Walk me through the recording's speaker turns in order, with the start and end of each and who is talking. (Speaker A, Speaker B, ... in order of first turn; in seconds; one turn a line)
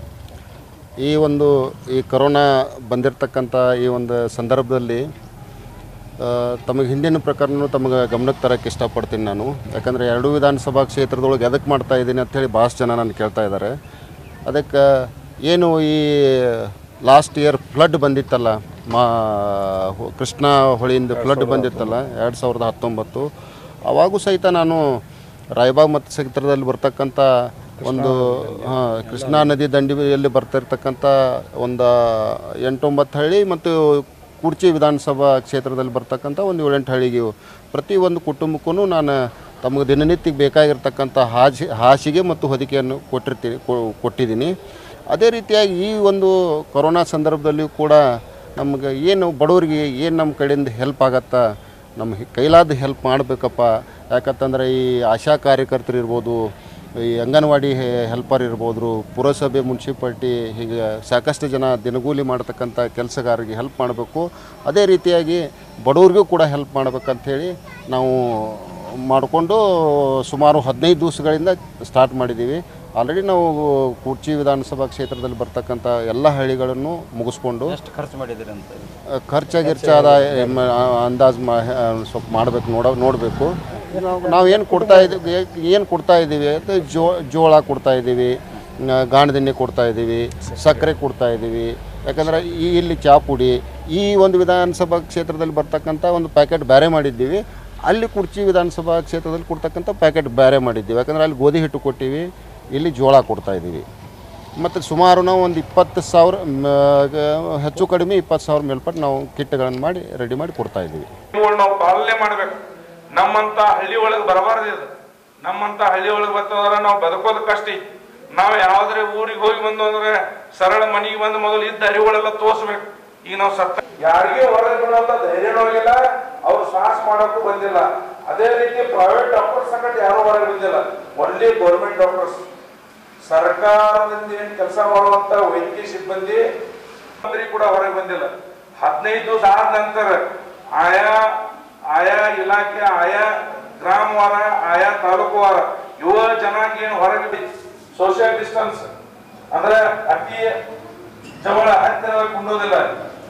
Speaker A: 1.0-5.0
Speaker A: 6.2-13.7
Speaker A: 14.5-23.3
Speaker B: 21.2-22.0
Speaker A: 23.9-24.8
Speaker A: 25.6-27.3
Speaker B: 27.8-29.5
Speaker A: 27.8-44.5
Speaker A: 45.1-48.0
Speaker A: 48.6-51.4
Speaker A: 52.0-56.4
Speaker A: 57.1-77.8
Speaker B: 77.7-79.0
Speaker A: 79.2-88.3
Speaker B: 79.6-80.8
Speaker A: 88.9-103.8
Speaker A: 104.6-111.1
Speaker C: 111.3-112.6
Speaker C: 113.1-132.4
Speaker C: 133.3-136.4
Speaker C: 137.2-140.2
Speaker C: 140.8-141.4
Speaker C: 141.9-148.9
Speaker C: 149.5-150.6
Speaker C: 151.4-152.9